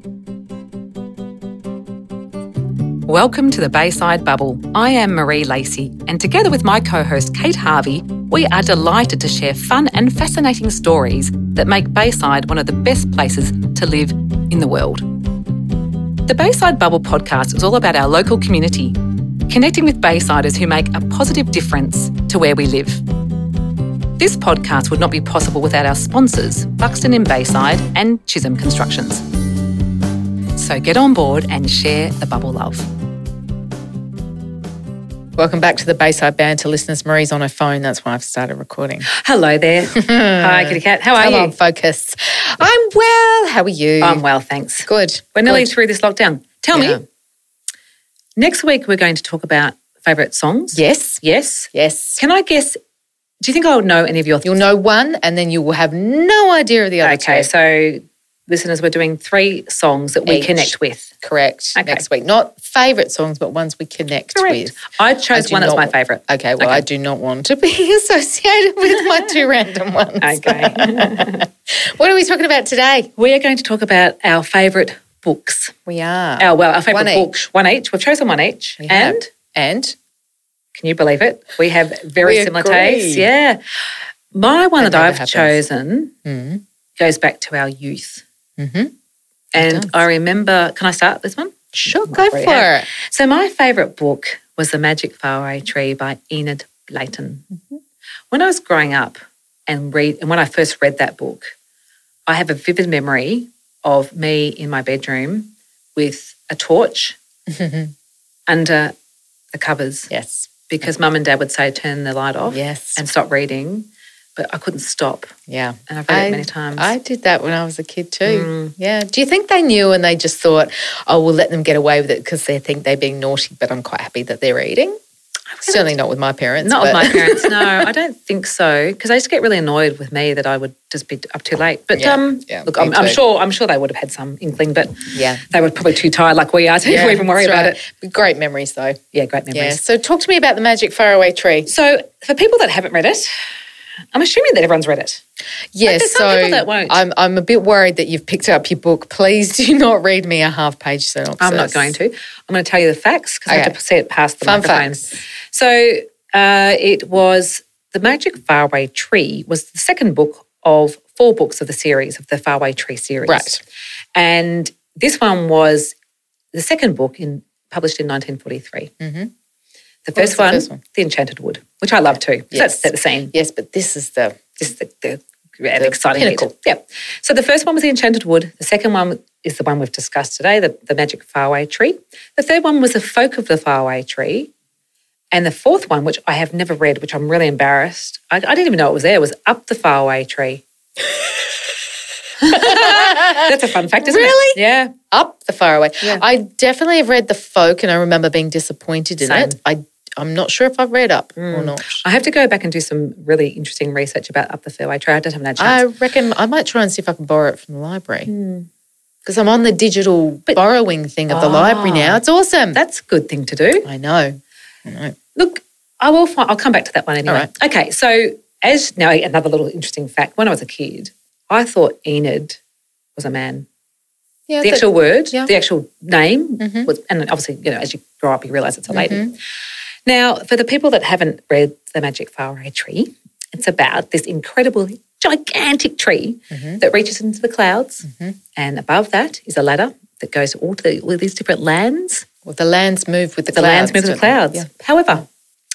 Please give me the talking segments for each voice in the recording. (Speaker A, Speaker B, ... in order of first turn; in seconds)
Speaker A: 3.1-15.1, 16.3-23.0, 24.2-29.2, 30.6-32.9, 39.1-41.5, 44.0-47.0, 48.4-52.8, 53.4-54.6, 57.0-61.1, 61.8-62.0, 64.3-66.8, 70.2-71.5, 73.2-75.7, 76.4-79.3, 80.8-83.6, 84.3-86.1, 87.0-88.2, 89.5-97.5, 98.3-101.5, 102.3-107.2, 108.5-108.9, 109.5-110.1, 110.7-115.3, 115.9-116.9, 118.2-118.8, 125.6-125.9, 126.6-137.8, 139.1-139.8, 141.7-143.3, 144.1-145.2, 145.8-147.0, 151.4-163.5, 164.2-165.9, 166.5-168.9, 170.1-173.3, 174.6-184.5, 185.3-190.6, 192.4-194.9, 199.2-199.6, 201.4-205.8, 208.3-208.7, 211.3-212.2, 212.7-213.9, 215.3-222.6, 223.2-223.7, 224.6-229.4, 230.1-242.2, 243.5-245.3
Speaker B: 35.4-39.1, 39.9-44.2, 44.9-45.7, 46.7-47.0, 50.7-52.2, 54.4-57.5, 60.3-73.1, 75.9-77.3, 78.8-80.0, 82.2-83.3, 84.8-85.6, 86.2-86.6, 88.6-88.9, 89.6-89.9, 91.8-92.9, 107.5-107.9, 110.1-110.5, 112.5-113.0, 115.5-125.0, 125.6-127.9, 131.9-133.2, 135.1-135.5, 136.8-139.0, 139.5-141.7, 145.7-151.9, 153.5-153.8, 154.4-155.2, 163.3-163.6, 169.0-169.3, 170.2-170.8, 172.5-174.5, 175.8-176.5, 192.5-193.5, 194.0-194.6, 195.1-202.0, 205.6-208.3, 209.2-212.8, 213.8-215.2, 224.5-225.5, 226.6-226.9, 228.9-229.3, 236.5-236.8, 238.0-238.4, 242.4-245.2